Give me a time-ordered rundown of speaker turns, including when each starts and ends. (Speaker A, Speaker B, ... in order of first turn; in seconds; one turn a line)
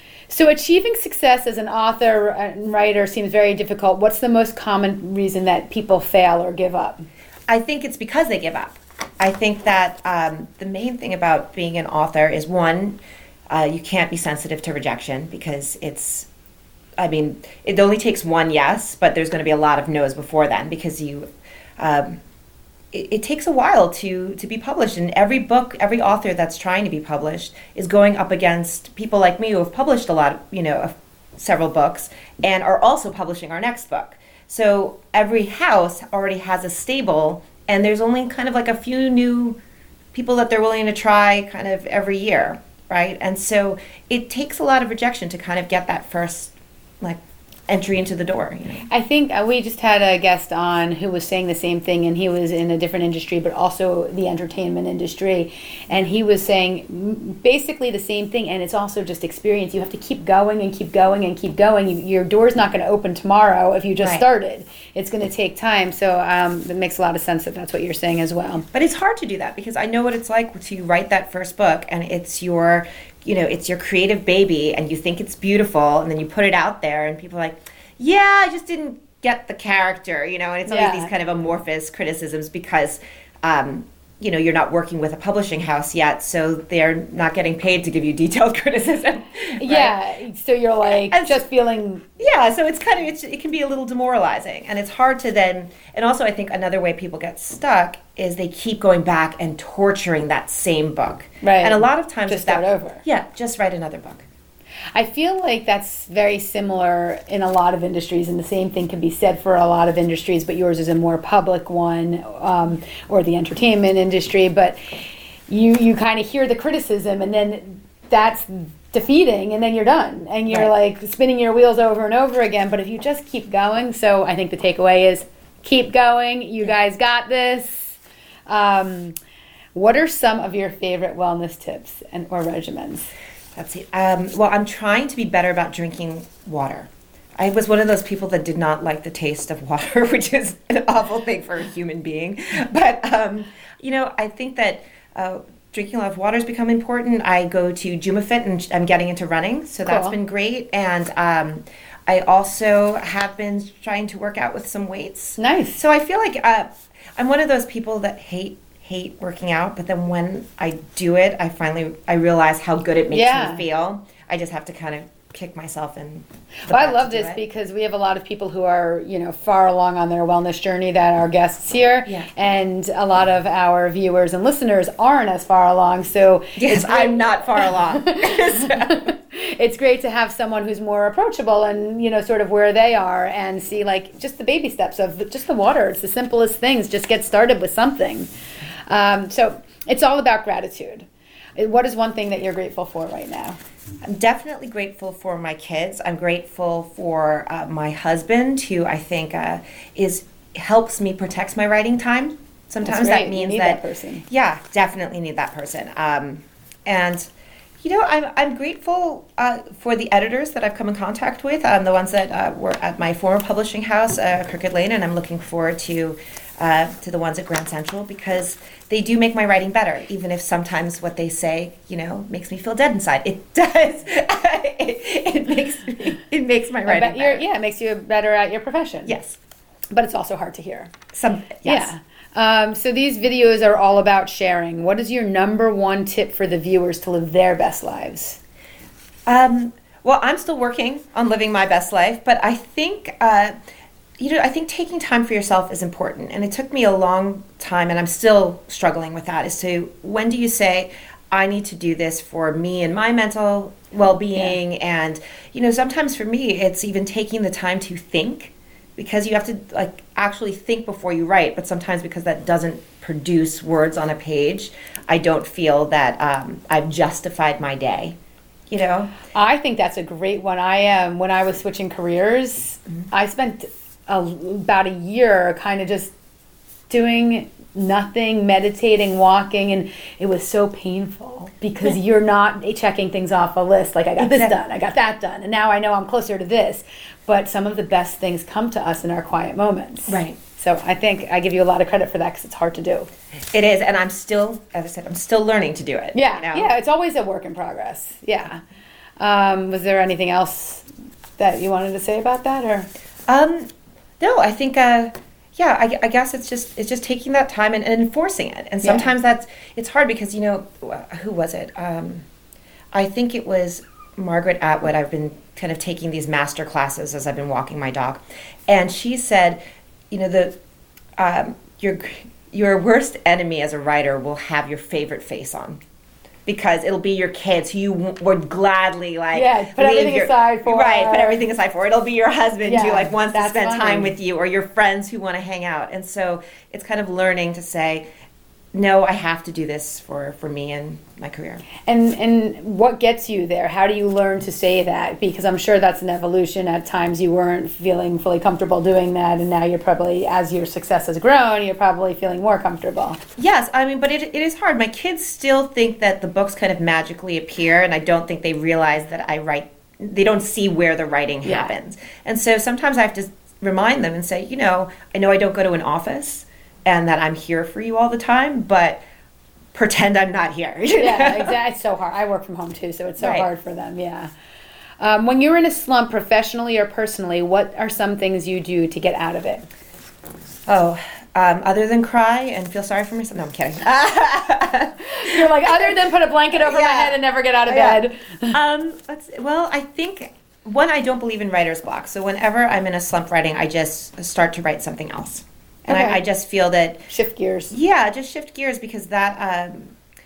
Speaker A: 0.3-7.0
Speaker B: 7.5-13.0
Speaker B: 13.5-16.3
Speaker B: 17.0-21.2
Speaker B: 21.8-22.2
Speaker B: 22.9-39.6
Speaker B: 40.1-48.9
Speaker A: 48.9-68.6
Speaker B: 68.7-90.0
Speaker A: 80.7-81.1
Speaker A: 89.6-92.0
Speaker B: 91.1-91.4
Speaker B: 92.2-104.2
Speaker A: 101.4-103.0
Speaker A: 104.9-114.8
Speaker A: 115.5-129.2
Speaker A: 129.7-133.1
Speaker B: 133.6-167.4
Speaker A: 149.8-150.2
Speaker A: 155.4-155.8
Speaker A: 163.1-163.6
Speaker A: 166.7-188.3
Speaker B: 176.6-179.1
Speaker A: 188.9-193.6
Speaker B: 194.0-207.3
Speaker A: 202.8-204.2
Speaker B: 207.8-227.4
Speaker A: 226.8-229.2
Speaker B: 229.1-229.4
Speaker A: 229.9-230.9
Speaker B: 231.1-231.9
Speaker A: 231.6-238.4
Speaker B: 239.3-243.5
Speaker B: 244.2-268.1
Speaker B: 268.7-269.1
Speaker A: 269.3-276.1
Speaker A: 276.9-293.1
Speaker B: 284.2-284.5
Speaker B: 290.1-290.4
Speaker B: 293.5-296.7
Speaker A: 296.1-298.6
Speaker A: 299.2-300.8
Speaker A: 301.4-302.9
Speaker B: 303.3-303.7
Speaker B: 304.2-312.2
Speaker A: 308.8-309.1
Speaker B: 312.9-319.6
Speaker B: 320.1-320.5
Speaker B: 321.2-325.8
Speaker B: 326.4-338.0
Speaker A: 329.3-331.4
Speaker A: 332.6-334.1
Speaker B: 338.7-341.6
Speaker A: 341.8-353.2
Speaker B: 353.4-369.0
Speaker A: 361.4-361.7
Speaker B: 369.7-371.6
Speaker A: 371.0-374.3
Speaker B: 373.2-373.5
Speaker A: 375.0-379.6
Speaker B: 380.7-385.9
Speaker A: 385.0-388.6
Speaker B: 386.6-397.1
Speaker A: 395.9-396.2
Speaker A: 397.1-397.7
Speaker B: 397.7-399.9